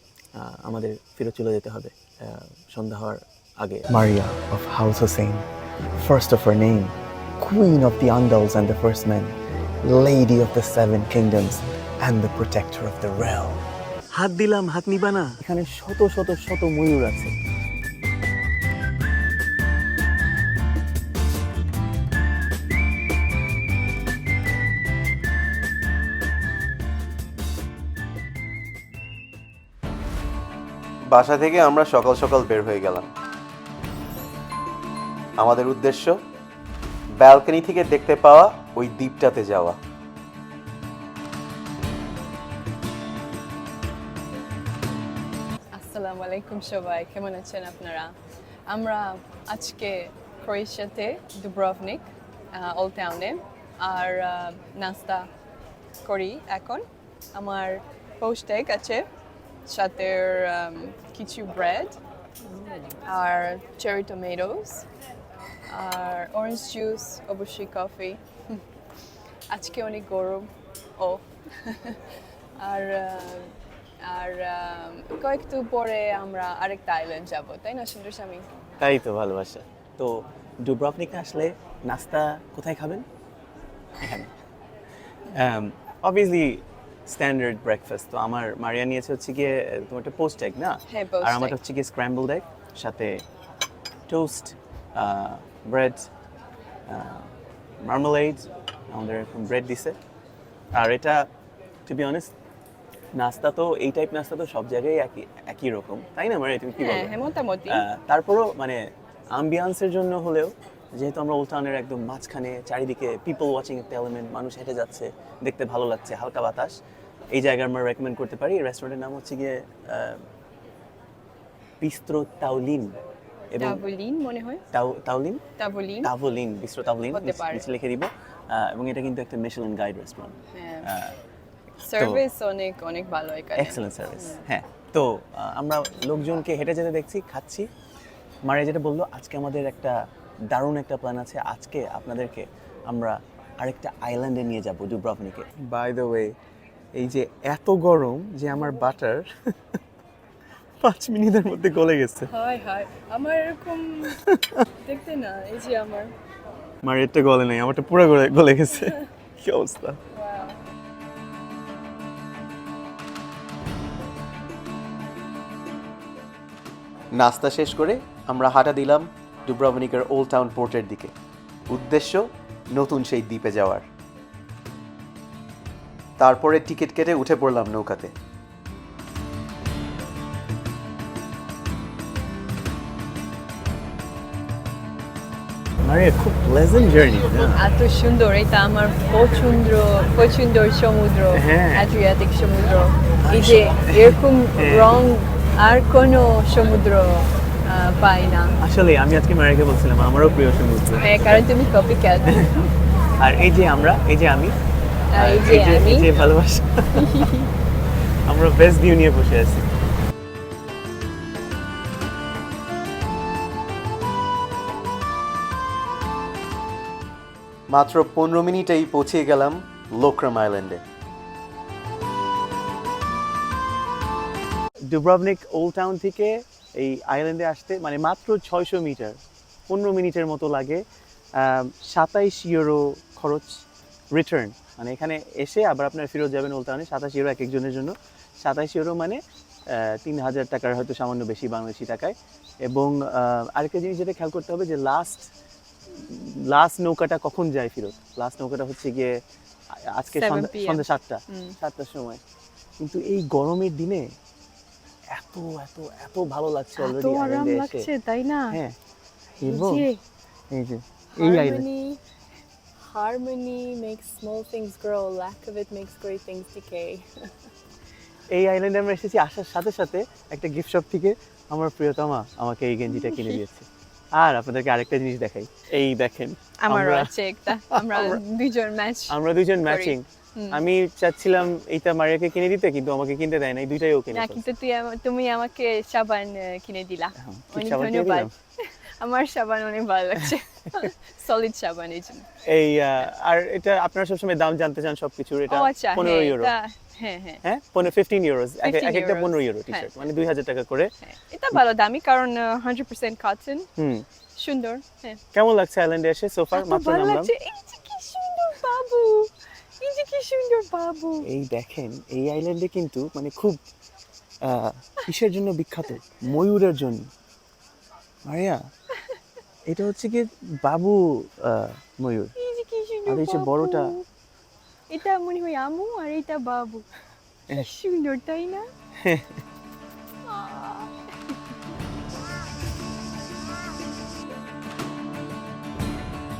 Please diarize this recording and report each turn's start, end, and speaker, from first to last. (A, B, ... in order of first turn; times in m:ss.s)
0:00.3-0:17.4 A
0:31.1-0:33.1 B
0:35.4-0:36.2 B
0:37.2-0:39.8 B
0:45.7-0:48.1 C
0:48.7-0:55.3 C
0:56.0-0:59.1 C
0:59.7-1:02.0 C
1:03.0-1:04.9 C
1:05.7-1:08.6 C
1:09.5-1:18.4 C
1:18.8-1:23.1 A
1:24.0-1:24.4 A
1:25.3-1:33.2 A
1:30.9-1:31.6 C
1:34.1-1:36.1 A
1:36.9-1:40.0 A
1:40.8-1:41.3 A
1:41.9-1:42.3 A
1:43.2-1:56.8 A
1:46.8-1:47.8 C
1:57.3-2:00.2 A
2:01.8-2:03.0 A
2:03.5-2:03.8 A
2:03.6-2:04.6 C
2:04.7-2:05.4 A
2:05.6-2:06.1 C
2:06.0-2:11.2 A
2:07.1-2:07.7 C
2:10.5-2:10.9 C
2:11.8-2:14.4 C
2:11.9-2:12.2 A
2:13.6-2:17.7 A
2:18.4-2:20.0 A
2:20.5-2:26.3 A
2:26.9-2:29.8 A
2:30.8-2:32.3 A
2:32.3-2:34.2 C
2:34.1-2:34.7 A
2:34.8-2:36.1 C
2:36.8-2:40.0 A
2:40.1-2:40.6 C
2:47.1-2:51.1 B
2:51.7-2:53.8 B
2:56.2-2:58.2 B
3:05.9-3:07.6 A
3:07.5-3:18.6 C
3:11.3-3:11.9 A
3:13.2-3:15.0 A
3:18.6-3:21.4 A
3:21.0-3:22.5 C
3:22.3-3:24.6 A
3:25.1-3:26.2 C
3:25.2-3:27.1 A
3:26.9-3:27.5 C
3:28.3-3:29.7 A
3:37.7-3:40.8 B
3:44.9-3:49.2 A
3:49.7-3:50.8 A
3:51.4-4:05.3 A
4:05.9-4:09.2 A
4:09.7-4:12.2 A
4:10.1-4:11.6 C
4:12.8-4:14.1 A
4:15.1-4:17.9 A
4:16.8-4:18.6 C
4:18.5-4:18.8 A
4:19.4-4:19.9 A
4:19.4-4:20.0 C
4:20.5-4:21.7 A
4:21.2-4:22.0 C
4:22.8-4:27.4 C
4:28.3-4:38.2 A
4:32.9-4:33.4 C
4:36.6-4:40.6 C
4:39.1-4:44.4 A
4:44.1-4:52.3 C
4:47.2-4:48.3 A
4:52.4-4:56.5 A
4:55.5-4:57.4 C
4:57.4-5:00.9 A
4:58.6-4:59.9 C
5:01.0-5:03.7 C
5:03.8-5:04.1 A
5:04.4-5:05.2 C
5:05.3-5:07.3 A
5:06.5-5:11.3 C
5:11.2-5:13.6 A
5:14.4-5:17.1 A
5:18.3-5:18.6 A
5:19.0-5:19.2 C
5:19.7-5:22.4 A
5:22.4-5:24.0 C
5:23.1-5:24.0 A
5:24.9-5:26.9 C
5:27.5-5:28.7 C
5:29.0-5:29.4 A
5:30.2-5:31.4 C